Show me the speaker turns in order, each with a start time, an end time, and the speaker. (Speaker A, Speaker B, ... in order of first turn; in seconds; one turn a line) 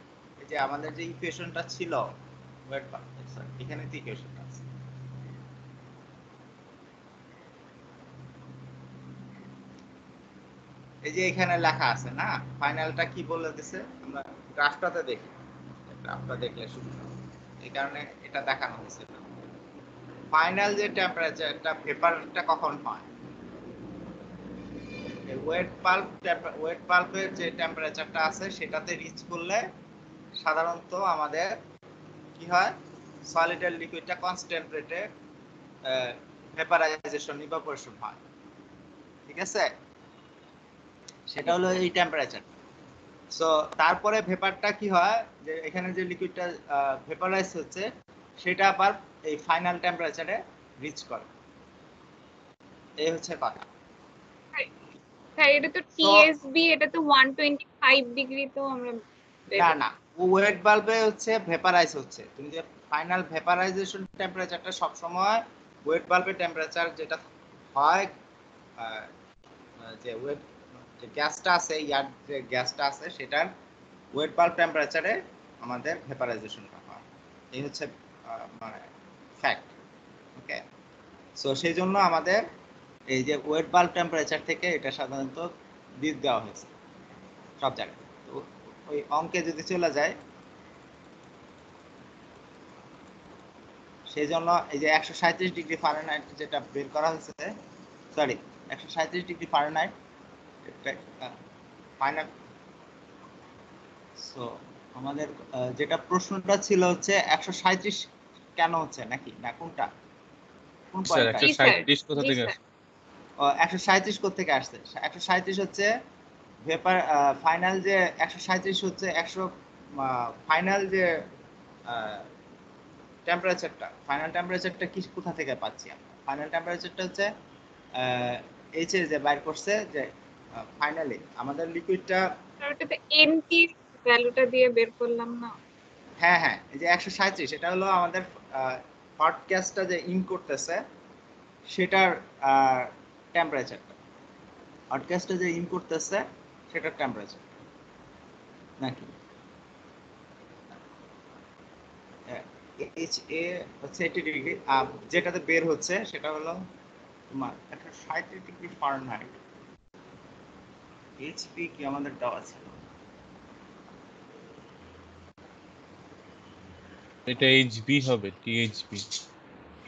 Speaker A: 0.4-2.1
Speaker A: 2.7-4.6
Speaker A: 11.0-15.3
Speaker A: 15.9-19.2
Speaker A: 20.3-23.1
Speaker A: 25.3-29.6
Speaker A: 30.4-31.6
Speaker A: 32.4-32.7
Speaker A: 33.3-35.1
Speaker A: 35.8-38.2
Speaker A: 39.3-39.7
Speaker A: 41.3-42.5
Speaker A: 43.3-47.9
Speaker A: 48.4-51.3
Speaker A: 53.0-53.7
Speaker B: 55.4-59.7
Speaker A: 56.0-56.3
Speaker A: 59.5-67.2
Speaker A: 67.7-68.1
Speaker A: 68.8-69.1
Speaker A: 69.8-70.4
Speaker A: 71.0-73.5
Speaker A: 74.1-78.8
Speaker A: 79.4-79.7
Speaker A: 80.3-80.6
Speaker A: 81.4-82.4
Speaker A: 83.1-85.5
Speaker A: 86.0-86.7
Speaker A: 87.6-90.1
Speaker A: 94.1-97.5
Speaker A: 98.1-99.9
Speaker A: 100.6-101.3
Speaker A: 102.0-102.3
Speaker A: 104.2-108.0
Speaker A: 108.6-109.9
Speaker A: 110.9-111.5
Speaker C: 111.0-112.5
Speaker B: 111.4-112.5
Speaker A: 113.4-115.9
Speaker A: 116.7-121.1
Speaker A: 121.9-122.2
Speaker A: 123.3-127.3
Speaker A: 128.0-132.2
Speaker B: 132.6-135.5
Speaker A: 136.2-140.8
Speaker A: 141.7-144.0
Speaker A: 144.9-147.6
Speaker A: 148.8-149.1
Speaker A: 152.3-156.6
Speaker A: 157.3-159.3
Speaker A: 161.2-162.8
Speaker C: 167.3-169.0